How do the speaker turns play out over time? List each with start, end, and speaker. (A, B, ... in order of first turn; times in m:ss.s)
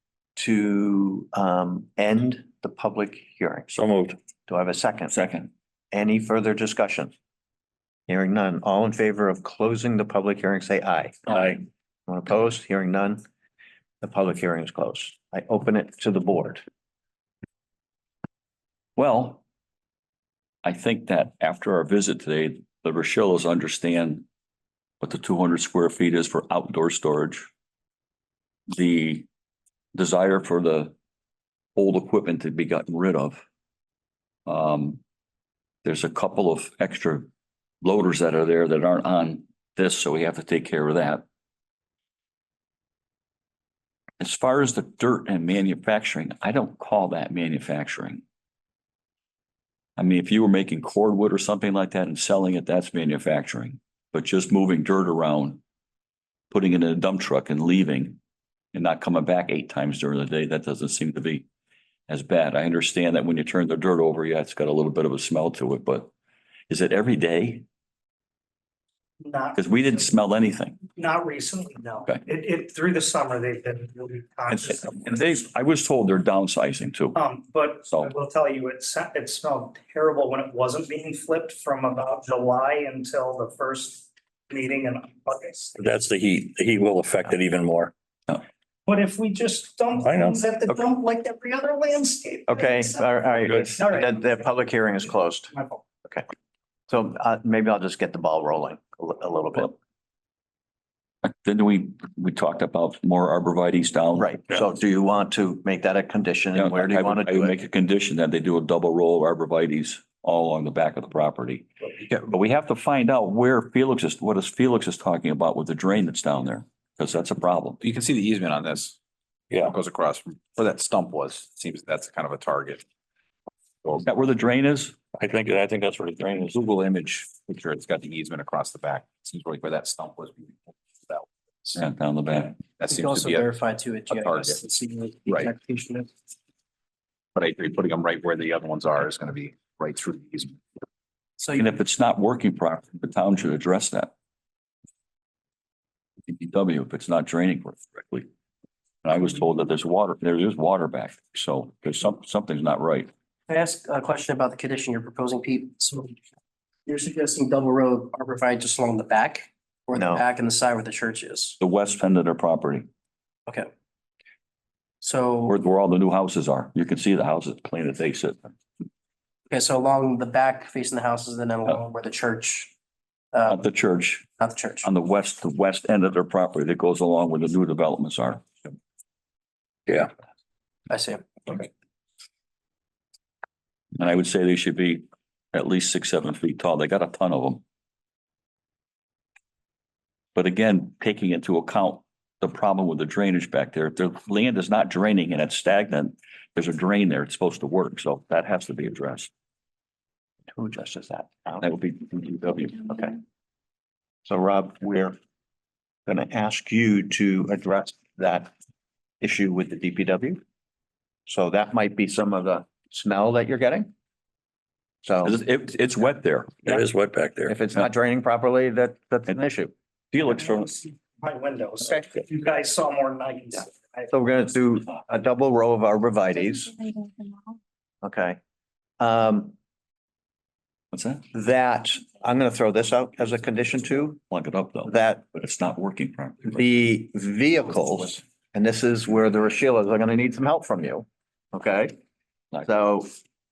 0:00.4-0:03.7 A
0:03.7-0:04.2 B
0:04.5-0:05.2 A
0:05.1-0:05.5 C
0:05.9-0:07.1 A
0:08.1-0:11.4 A
0:12.1-0:13.2 A
0:14.0-0:16.6 A
0:19.0-0:19.4 C
0:20.6-0:24.2 C
0:25.0-0:27.5 C
0:28.7-0:29.3 C
0:30.0-0:31.0 C
0:31.8-0:33.4 C
0:34.5-0:35.0 C
0:35.8-0:37.3 C
0:37.8-0:41.2 C
0:44.2-0:48.2 C
0:50.0-0:55.6 C
0:56.5-0:58.2 C
0:58.7-1:01.5 C
1:02.1-1:06.1 C
1:06.7-1:07.6 C
1:09.2-1:10.1 D
1:09.6-1:10.8 C
1:11.0-1:15.0 D
1:14.7-1:17.2 C
1:17.2-1:25.8 D
1:25.8-1:27.9 B
1:28.9-1:34.4 D
1:30.0-1:30.4 B
1:32.5-1:35.5 A
1:35.5-1:35.8 D
1:36.9-1:39.8 A
1:41.2-1:44.4 C
1:44.2-1:47.6 A
1:46.6-1:57.8 C
1:57.8-1:59.0 E
1:59.7-2:02.8 E
2:04.0-2:05.0 C
2:05.2-2:06.6 B
2:06.6-2:11.8 E
2:11.8-2:12.6 C
2:12.4-2:13.5 E
2:12.9-2:16.1 F
2:14.1-2:14.6 E
2:15.3-2:15.5 E
2:17.4-2:20.6 E
2:21.4-2:21.7 F
2:21.6-2:24.1 C
2:26.3-2:28.3 C
2:29.0-2:33.1 C
2:33.5-2:36.2 F
2:36.9-2:41.6 F
2:39.9-2:40.2 A
2:41.6-2:42.9 C
2:45.0-2:45.6 F
2:45.5-2:48.5 C
2:49.5-2:52.7 F
2:53.3-2:53.7 F
2:53.5-2:54.3 C
2:54.4-2:54.9 F
2:54.8-2:58.4 C
3:00.9-3:01.7 F
3:04.0-3:07.6 C
3:10.4-3:19.3 C
3:20.5-3:21.7 A
3:21.6-3:22.9 C
3:22.7-3:23.2 A
3:24.3-3:25.2 A
3:26.1-3:28.5 A
3:29.2-3:30.4 A
3:31.3-3:33.9 A
3:35.0-3:35.4 A
3:35.2-3:36.8 C
3:36.7-3:37.5 B
3:37.5-3:39.7 A
3:40.1-3:40.8 C
3:40.6-3:44.1 D
3:44.1-3:46.8 A
3:48.0-3:48.4 A
3:49.0-3:49.6 A
3:50.9-3:51.2 C
3:51.3-3:54.2 A
3:54.3-3:56.6 C
3:54.9-3:55.3 A
3:56.5-4:02.0 A
4:02.6-4:03.1 A